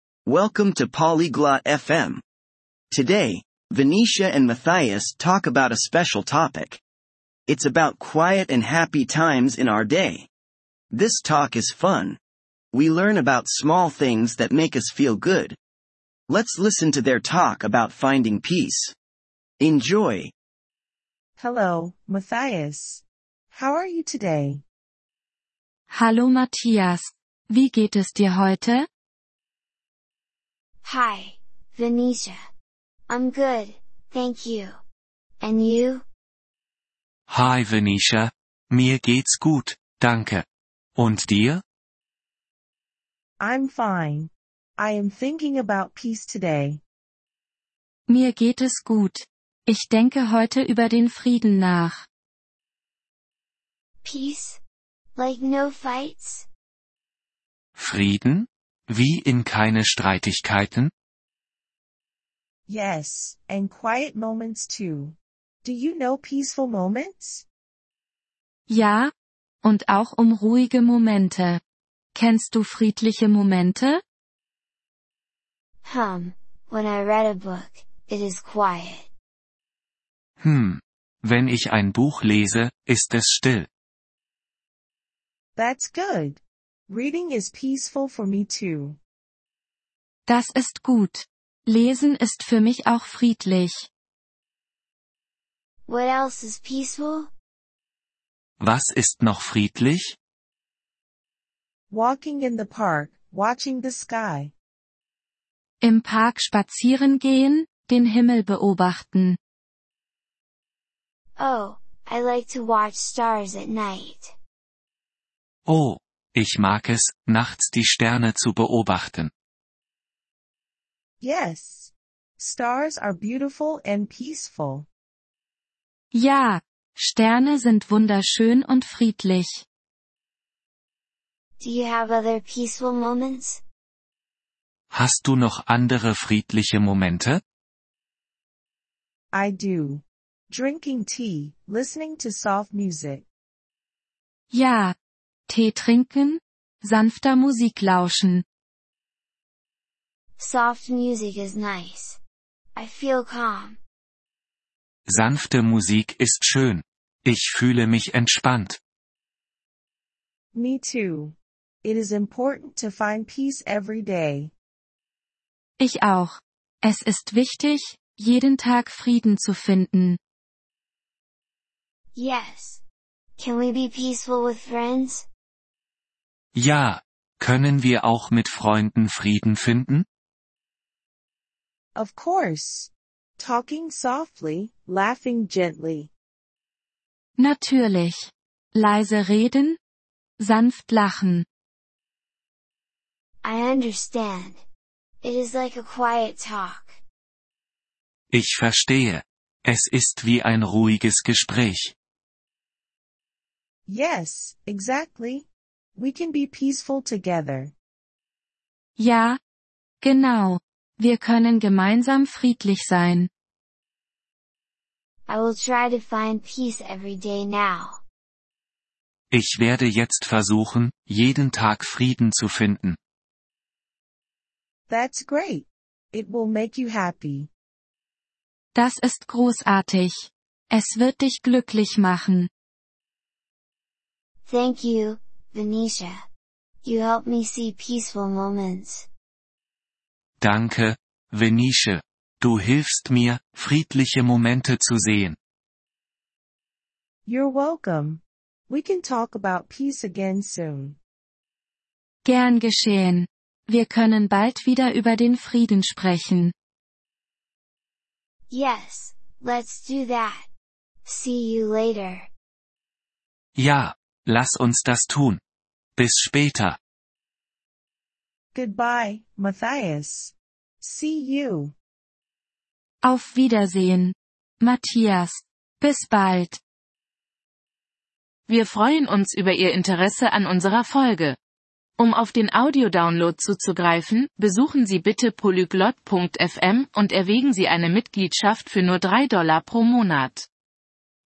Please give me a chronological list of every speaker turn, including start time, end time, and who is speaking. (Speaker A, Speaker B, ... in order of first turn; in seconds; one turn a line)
Speaker A: 0.2-2.2
Speaker A: 2.9-6.8
Speaker A: 7.5-10.3
Speaker A: 10.9-12.2
Speaker A: 12.7-15.6
Speaker A: 16.3-18.9
Speaker A: 19.6-20.3
Speaker B: 21.4-24.6
Speaker C: 25.9-28.9
Speaker D: 30.8-32.4
Speaker D: 33.1-34.8
Speaker D: 35.4-36.0
Speaker E: 37.3-40.4
Speaker E: 41.0-41.6
Speaker B: 43.4-46.8
Speaker C: 48.1-52.0
Speaker D: 54.0-54.6
Speaker D: 55.1-56.5
Speaker E: 57.8-60.9
Speaker B: 62.7-67.4
Speaker C: 68.7-69.1
Speaker C: 69.6-71.6
Speaker C: 72.1-74.0
Speaker D: 75.8-79.1
Speaker E: 80.4-83.7
Speaker B: 85.5-89.0
Speaker C: 90.3-93.9
Speaker D: 95.9-97.3
Speaker E: 98.6-100.2
Speaker B: 101.9-104.5
Speaker C: 105.8-109.4
Speaker D: 111.4-114.3
Speaker E: 115.7-119.3
Speaker B: 121.2-124.9
Speaker C: 126.1-129.6
Speaker D: 131.6-133.6
Speaker E: 134.9-137.4
Speaker B: 139.3-143.2
Speaker C: 144.5-144.9
Speaker C: 145.5-148.4
Speaker D: 150.4-152.2
Speaker D: 152.8-153.8
Speaker E: 155.1-158.8
Speaker B: 160.5-164.5
Speaker C: 165.8-170.2
Speaker D: 172.1-172.8
Speaker D: 173.4-175.2
Speaker E: 176.5-180.0
Speaker B: 181.9-186.1
Speaker C: 187.4-189.8
Speaker C: 190.4-191.4
Speaker D: 193.4-194.6
Speaker D: 195.2-197.0
Speaker E: 198.3-201.9
Speaker B: 203.9-207.7
Speaker C: 209.0-209.4
Speaker C: 210.0-213.3
Speaker D: 215.3-218.0
Speaker E: 219.3-223.0
Speaker B: 224.9-227.5
Speaker C: 228.7-232.5
Speaker D: 234.4-236.2
Speaker D: 236.8-239.1
Speaker E: 240.4-245.4
Speaker B: 247.2-251.0
Speaker C: 252.2-256.5
Speaker D: 258.5-260.5
Speaker D: 261.1-262.3
Speaker E: 263.6-265.4
Speaker E: 266.0-266.8
Speaker B: 268.5-271.7
Speaker C: 273.0-276.6
Speaker F: 278.5-281.4
Speaker F: 282.0-290.4